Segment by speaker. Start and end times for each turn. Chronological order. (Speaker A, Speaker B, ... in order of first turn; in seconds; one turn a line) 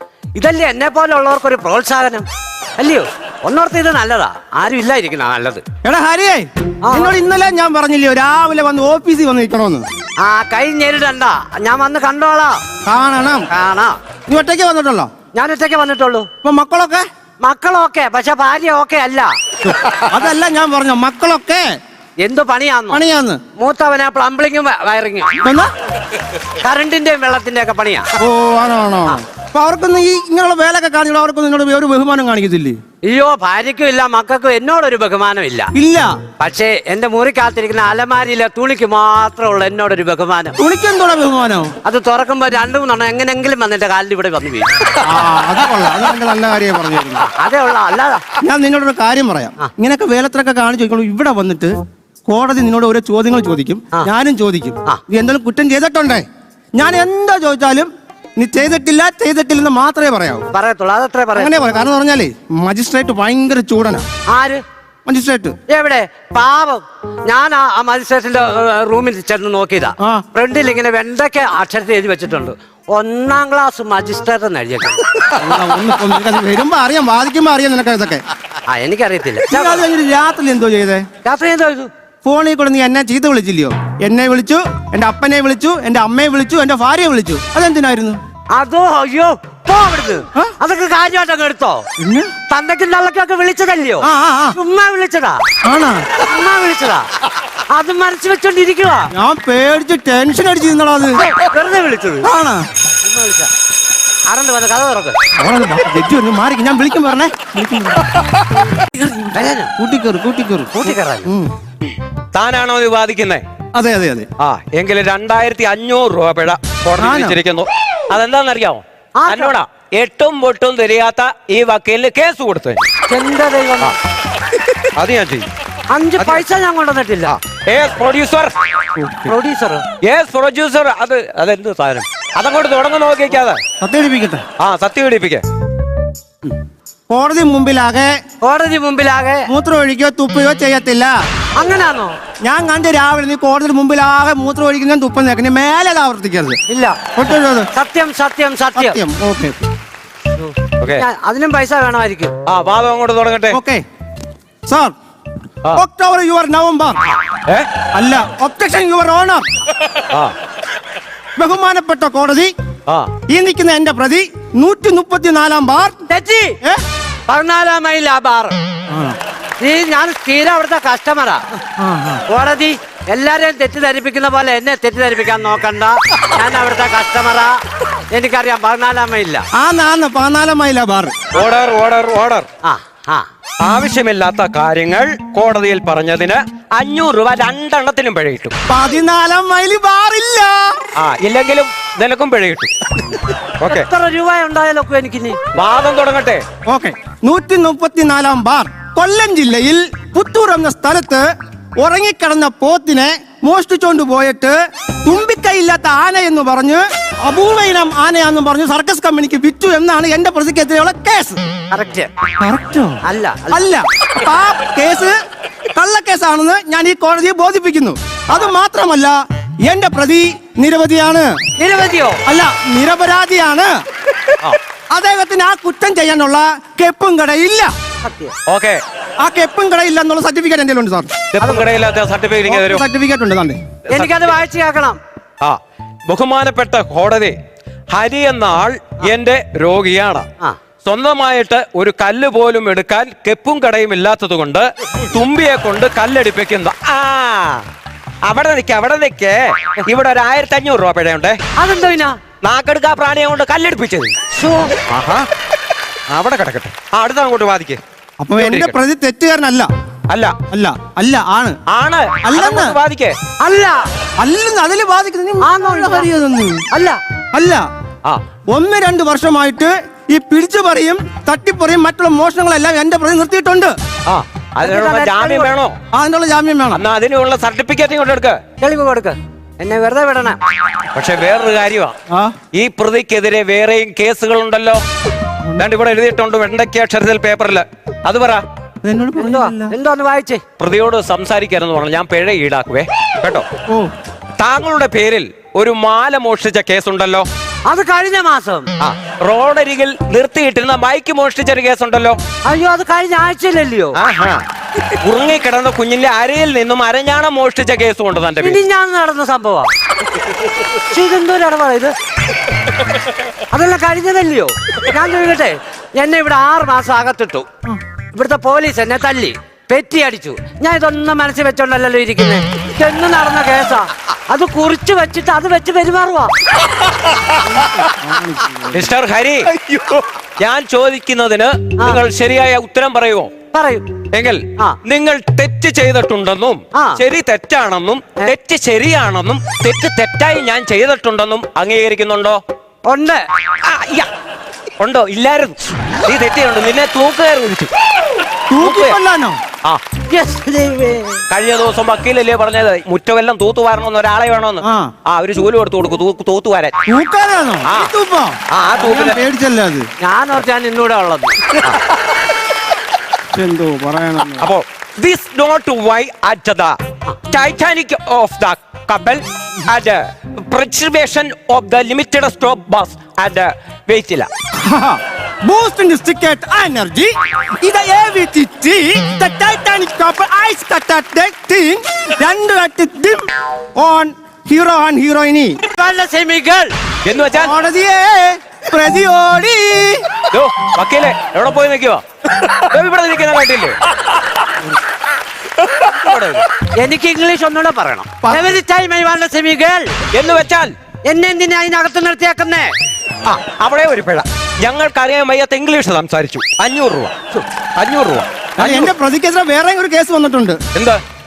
Speaker A: 0.4-2.3
Speaker A: 2.8-5.6
Speaker B: 5.8-9.8
Speaker A: 6.8-7.1
Speaker A: 10.2-12.6
Speaker B: 12.8-13.5
Speaker A: 13.5-14.0
Speaker B: 14.3-15.1
Speaker A: 15.3-16.3
Speaker B: 16.4-17.0
Speaker A: 17.4-19.3
Speaker B: 19.6-21.7
Speaker A: 22.2-23.0
Speaker B: 22.9-23.4
Speaker A: 23.6-25.4
Speaker B: 25.4-25.7
Speaker A: 26.6-28.1
Speaker B: 28.2-32.8
Speaker A: 33.0-35.7
Speaker B: 35.7-36.1
Speaker A: 36.4-40.6
Speaker B: 40.6-41.7
Speaker A: 41.8-44.7
Speaker B: 45.0-47.2
Speaker A: 47.3-48.2
Speaker B: 48.4-51.7
Speaker B: 52.2-56.2
Speaker B: 56.8-60.5
Speaker A: 60.5-61.6
Speaker B: 61.3-64.0
Speaker A: 64.3-64.6
Speaker B: 65.1-65.6
Speaker A: 65.7-75.1
Speaker B: 70.0-70.2
Speaker B: 75.3-78.2
Speaker A: 78.7-79.8
Speaker B: 79.5-81.0
Speaker A: 81.2-81.9
Speaker B: 82.2-88.2
Speaker A: 88.5-91.9
Speaker B: 92.0-92.3
Speaker A: 92.5-95.4
Speaker B: 94.0-94.6
Speaker B: 95.7-96.1
Speaker A: 96.2-97.1
Speaker A: 97.7-99.1
Speaker B: 99.1-101.2
Speaker A: 101.2-102.3
Speaker B: 102.2-102.7
Speaker A: 103.0-103.5
Speaker A: 104.3-105.2
Speaker B: 105.3-108.1
Speaker B: 109.0-109.3
Speaker A: 109.2-109.7
Speaker B: 109.8-111.5
Speaker A: 110.7-111.3
Speaker C: 112.3-113.4
Speaker B: 113.8-114.3
Speaker C: 114.4-122.9
Speaker B: 117.0-117.4
Speaker A: 119.2-119.5
Speaker A: 123.1-124.0
Speaker C: 125.0-125.5
Speaker A: 125.9-127.3
Speaker C: 126.2-126.4
Speaker C: 127.2-128.5
Speaker B: 129.0-129.3
Speaker A: 129.2-129.8
Speaker C: 130.1-133.6
Speaker B: 133.8-134.4
Speaker C: 134.6-135.4
Speaker B: 137.1-138.1
Speaker A: 138.4-139.5
Speaker B: 139.5-141.1
Speaker A: 141.6-142.2
Speaker B: 142.4-146.6
Speaker A: 146.7-147.0
Speaker B: 147.2-147.7
Speaker A: 147.7-149.0
Speaker B: 148.8-149.6
Speaker A: 150.4-152.3
Speaker C: 152.5-153.6
Speaker B: 153.5-153.8
Speaker B: 154.7-154.9
Speaker B: 155.7-157.0
Speaker B: 157.9-159.4
Speaker B: 161.4-162.5
Speaker B: 163.3-166.0
Speaker A: 166.1-166.6
Speaker A: 167.3-168.6
Speaker B: 168.9-169.2
Speaker A: 169.6-171.4
Speaker B: 171.8-172.2
Speaker A: 172.3-177.6
Speaker A: 178.1-179.4
Speaker B: 179.6-181.2
Speaker C: 181.3-182.5
Speaker A: 182.6-183.3
Speaker C: 183.6-188.5
Speaker B: 188.7-190.8
Speaker C: 191.0-192.7
Speaker C: 193.6-193.9
Speaker A: 193.7-195.4
Speaker C: 195.6-196.4
Speaker B: 196.7-201.2
Speaker B: 201.8-211.4
Speaker A: 211.7-212.1
Speaker B: 212.4-213.0
Speaker A: 213.0-213.7
Speaker B: 213.5-215.2
Speaker B: 215.8-221.3
Speaker A: 221.6-222.2
Speaker B: 222.3-223.7
Speaker B: 224.9-227.7
Speaker A: 228.0-228.3
Speaker C: 228.5-228.8
Speaker B: 229.2-231.2
Speaker C: 231.3-232.8
Speaker A: 231.4-231.7
Speaker B: 232.5-233.6
Speaker A: 233.9-235.0
Speaker C: 233.9-234.3
Speaker C: 235.4-237.3
Speaker C: 237.9-240.2
Speaker C: 240.8-247.6
Speaker C: 248.3-251.4
Speaker A: 251.6-252.2
Speaker C: 252.4-254.2
Speaker A: 254.3-254.7
Speaker C: 254.9-255.2
Speaker C: 256.1-257.8
Speaker B: 258.2-259.7
Speaker C: 258.3-258.8
Speaker C: 260.1-260.4
Speaker B: 260.5-261.6
Speaker C: 261.7-263.1
Speaker B: 262.2-262.8
Speaker A: 263.4-263.8
Speaker B: 264.2-266.6
Speaker A: 265.4-266.1
Speaker A: 266.7-267.0
Speaker B: 267.3-267.6
Speaker B: 268.5-273.8
Speaker C: 274.1-275.8
Speaker A: 274.6-275.5
Speaker B: 275.9-276.8
Speaker C: 276.7-278.4
Speaker A: 278.6-280.4
Speaker C: 280.9-281.9
Speaker B: 282.1-282.3
Speaker C: 282.5-284.8
Speaker C: 285.6-288.4
Speaker B: 288.8-289.8
Speaker A: 289.1-290.4
Speaker C: 290.6-293.4
Speaker C: 294.4-297.3
Speaker A: 297.7-298.7
Speaker C: 298.8-302.2
Speaker A: 302.4-304.0
Speaker C: 303.9-304.4
Speaker C: 305.0-308.6
Speaker A: 308.4-309.7
Speaker A: 310.6-311.9
Speaker A: 313.5-317.5
Speaker A: 318.1-326.3
Speaker B: 327.4-328.9
Speaker C: 328.7-333.3
Speaker A: 333.5-333.9
Speaker C: 334.1-342.4
Speaker A: 336.7-337.0
Speaker A: 342.9-343.2
Speaker C: 343.6-344.1
Speaker C: 344.8-347.7
Speaker B: 348.5-349.4
Speaker C: 348.6-349.0
Speaker A: 350.1-351.2
Speaker C: 351.3-356.7
Speaker B: 354.6-354.9
Speaker B: 356.9-359.8
Speaker C: 357.6-357.9
Speaker C: 358.5-359.2
Speaker A: 360.0-361.5
Speaker B: 363.3-364.5
Speaker C: 364.4-366.8
Speaker C: 367.3-374.3
Speaker B: 374.6-383.2
Speaker B: 383.8-385.6
Speaker A: 385.7-386.7
Speaker C: 387.0-387.6
Speaker B: 387.3-390.1
Speaker C: 390.3-393.8
Speaker C: 395.6-396.4
Speaker A: 396.8-399.9
Speaker C: 400.1-400.7
Speaker A: 401.1-402.7
Speaker C: 403.2-407.1
Speaker C: 407.8-408.9
Speaker B: 408.6-410.6
Speaker C: 410.8-411.0